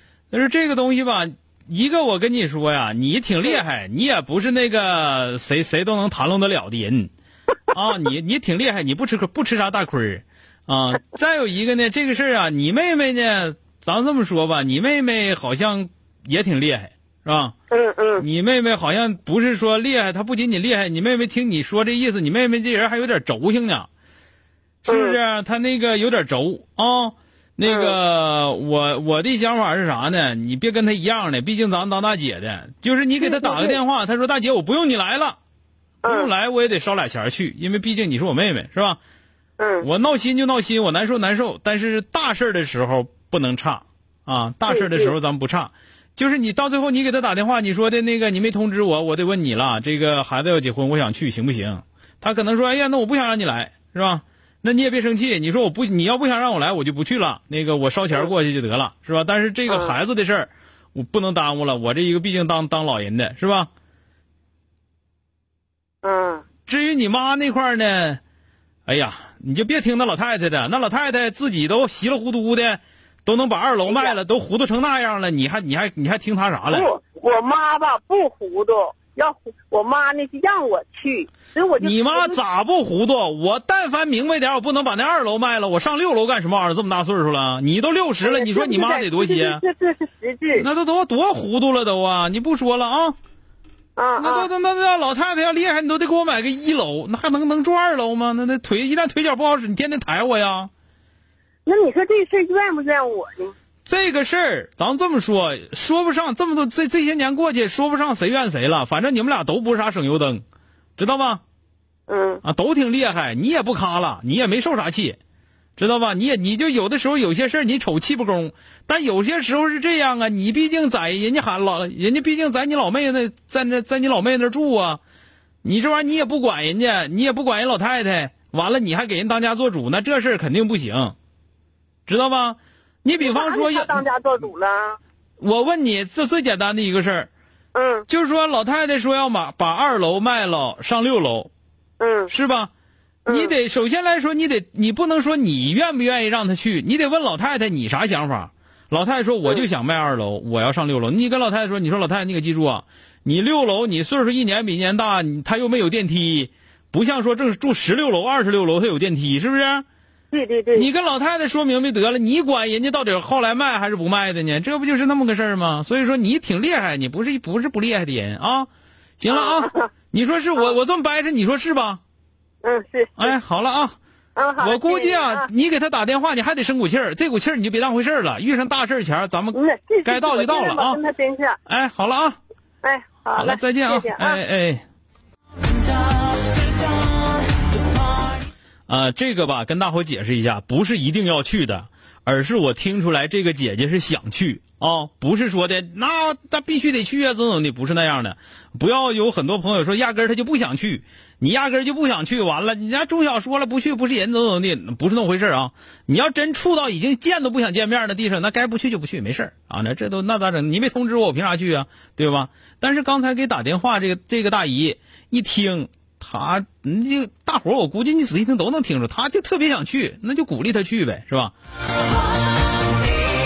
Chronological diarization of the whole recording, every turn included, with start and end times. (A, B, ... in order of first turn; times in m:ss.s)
0:00.3-0:07.1 A
0:07.7-0:17.6 A
0:17.7-0:18.3 B
0:18.2-0:23.9 A
0:24.9-0:35.4 A
0:24.9-0:25.2 B
0:27.6-0:28.0 B
0:33.2-0:33.8 B
0:36.0-0:36.3 B
0:36.0-0:39.0 A
0:39.6-0:39.9 B
0:39.8-1:03.7 A
0:44.7-0:45.2 B
0:59.7-1:00.0 B
1:06.0-1:06.4 B
1:06.7-1:08.2 A
1:08.9-1:16.9 A
1:13.9-1:14.2 B
1:16.7-1:22.4 B
1:21.8-1:29.6 A
1:28.2-1:30.7 B
1:30.6-1:33.2 A
1:34.0-1:34.5 B
1:34.2-1:40.7 A
1:41.7-1:43.6 B
1:43.9-1:50.4 A
1:51.0-1:51.4 A
1:52.1-1:52.4 B
1:52.4-1:55.2 A
1:55.8-2:05.0 A
2:05.6-2:11.2 A
2:12.1-2:14.0 A
2:13.2-2:15.0 B
2:15.4-2:17.3 A
2:17.7-2:18.1 B
2:18.1-2:21.5 A
2:22.0-2:22.3 B
2:22.3-2:22.7 A
2:23.3-2:23.5 B
2:23.3-2:39.8 A
2:40.3-2:40.9 B
2:40.7-2:48.7 A
2:49.2-2:52.0 A
2:49.3-2:49.9 B
2:52.6-2:53.4 B
2:53.2-2:54.0 A
2:54.4-2:55.5 B
2:54.6-3:01.0 A
2:59.5-3:01.6 B
3:01.7-3:02.4 A
3:02.8-3:04.4 B
3:03.4-3:04.8 A
3:08.9-3:41.5 A